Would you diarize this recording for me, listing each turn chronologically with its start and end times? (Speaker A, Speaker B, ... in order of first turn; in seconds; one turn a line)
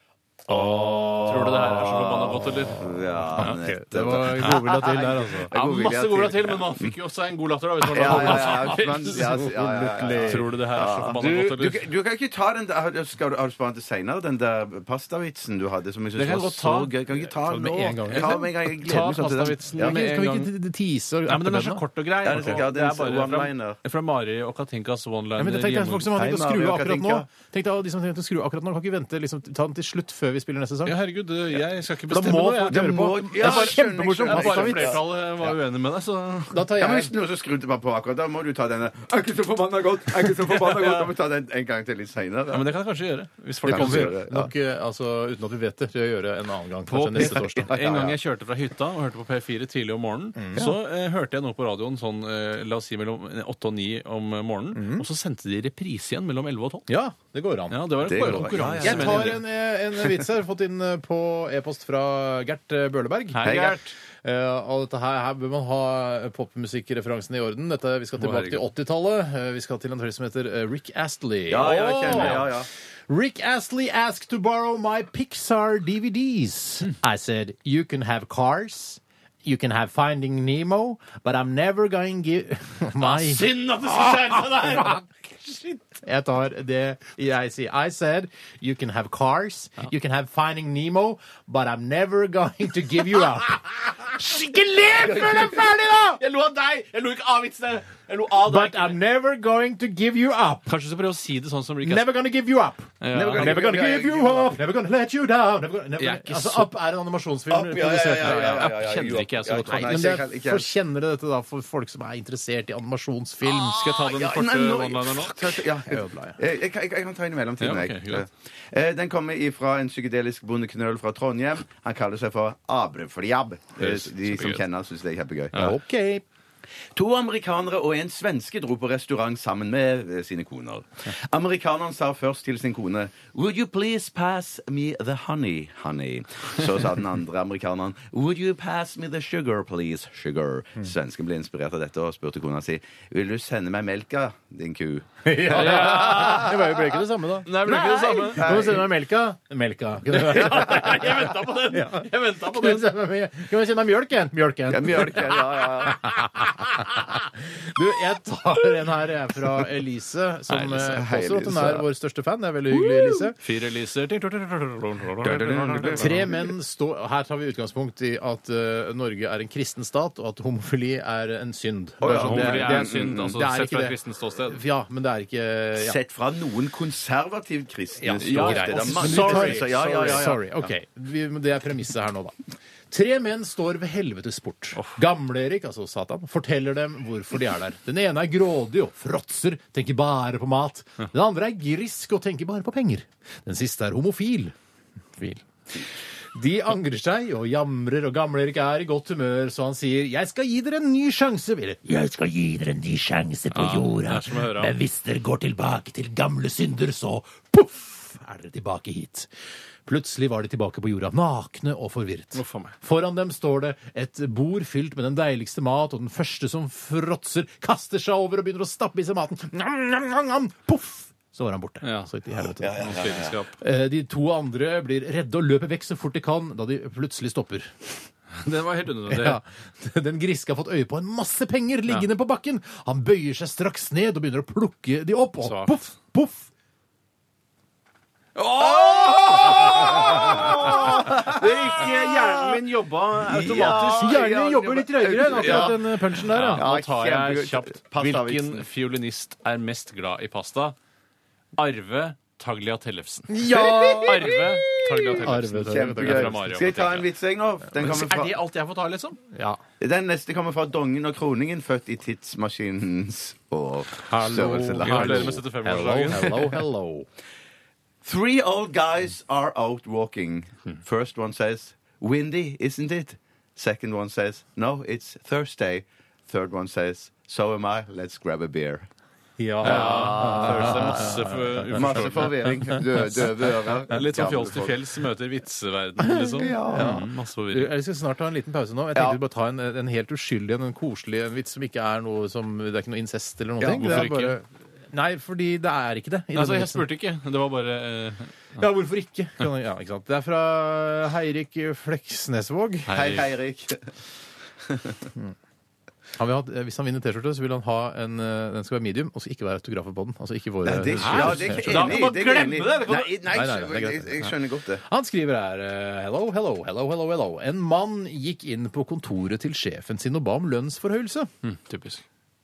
Speaker A: 0.5-2.8
Speaker B: 0.5-6.9
Speaker C: 3.4-5.5
Speaker A: 5.5-9.3
Speaker B: 7.9-20.0
Speaker C: 8.0-10.9
Speaker A: 10.2-11.8
Speaker A: 16.1-16.9
Speaker C: 17.2-18.5
Speaker A: 18.1-20.5
Speaker C: 19.7-22.6
Speaker A: 21.3-26.1
Speaker B: 22.2-23.8
Speaker C: 25.4-31.0
Speaker B: 26.1-27.3
Speaker A: 30.9-36.7
Speaker C: 32.1-35.0
Speaker B: 32.6-35.0
Speaker C: 36.5-37.1
Speaker B: 36.8-42.7
Speaker A: 40.7-41.0
Speaker A: 42.5-44.2
Speaker B: 43.6-44.5
Speaker C: 43.6-48.0
Speaker A: 46.9-56.9
Speaker B: 47.4-48.2
Speaker C: 50.4-50.7
Speaker C: 54.7-55.0
Speaker C: 56.9-72.5
Speaker A: 57.7-59.4
Speaker B: 58.0-59.4
Speaker A: 63.3-63.9
Speaker B: 63.4-63.8
Speaker A: 68.2-68.6
Speaker B: 71.5-72.7
Speaker A: 71.8-72.4
Speaker C: 73.1-85.0
Speaker A: 83.0-85.8
Speaker C: 86.0-96.2
Speaker A: 95.0-95.5
Speaker A: 96.2-99.0
Speaker C: 98.4-100.7
Speaker A: 100.7-102.1
Speaker C: 101.8-108.8
Speaker A: 103.0-103.7
Speaker B: 103.1-104.5
Speaker A: 106.0-106.7
Speaker B: 107.5-110.7
Speaker A: 108.2-110.2
Speaker C: 109.6-114.0
Speaker A: 113.5-115.6
Speaker B: 114.0-125.5
Speaker C: 115.8-116.4
Speaker A: 117.6-118.2
Speaker A: 123.8-124.6
Speaker A: 125.5-125.8
Speaker C: 125.5-126.2
Speaker B: 126.9-145.8
Speaker C: 145.2-163.4
Speaker A: 145.5-146.6
Speaker A: 147.4-148.5
Speaker B: 148.1-148.8
Speaker A: 150.1-152.9
Speaker B: 154.7-156.0
Speaker A: 160.5-161.0
Speaker B: 161.0-161.8
Speaker A: 163.4-166.3
Speaker B: 165.3-166.0
Speaker C: 165.9-176.0
Speaker B: 172.0-173.4
Speaker A: 172.0-174.6
Speaker B: 175.8-180.7
Speaker C: 178.0-182.3
Speaker A: 178.2-180.2
Speaker C: 182.9-194.5
Speaker C: 195.2-209.3
Speaker A: 203.5-204.8
Speaker C: 209.8-227.9
Speaker A: 212.3-212.7
Speaker A: 221.8-222.1
Speaker B: 222.6-223.3
Speaker A: 222.8-223.5
Speaker A: 228.4-229.4
Speaker C: 229.1-236.5
Speaker A: 235.4-235.8
Speaker A: 238.3-244.3
Speaker B: 238.8-242.6
Speaker B: 243.1-245.8
Speaker C: 243.5-246.7
Speaker A: 245.3-250.8
Speaker B: 246.5-248.6
Speaker A: 251.6-253.3
Speaker C: 253.3-256.4
Speaker B: 253.5-254.3
Speaker A: 254.0-257.1
Speaker B: 255.6-258.4
Speaker A: 257.8-259.2
Speaker C: 259.3-259.6
Speaker B: 259.8-265.4
Speaker C: 264.0-267.1
Speaker A: 264.8-266.5
Speaker B: 268.0-278.9
Speaker C: 279.4-283.1
Speaker B: 279.6-281.1
Speaker A: 279.6-282.3
Speaker B: 281.7-284.8
Speaker A: 283.9-287.7
Speaker C: 286.2-296.9
Speaker B: 286.3-287.0
Speaker B: 293.6-294.1
Speaker A: 293.7-294.4
Speaker A: 296.3-298.3
Speaker C: 298.6-303.2
Speaker A: 302.9-303.3
Speaker B: 302.9-303.9
Speaker C: 306.1-312.1
Speaker B: 310.6-314.8
Speaker A: 311.0-313.2
Speaker C: 313.2-314.3
Speaker C: 314.8-321.3
Speaker A: 321.4-322.0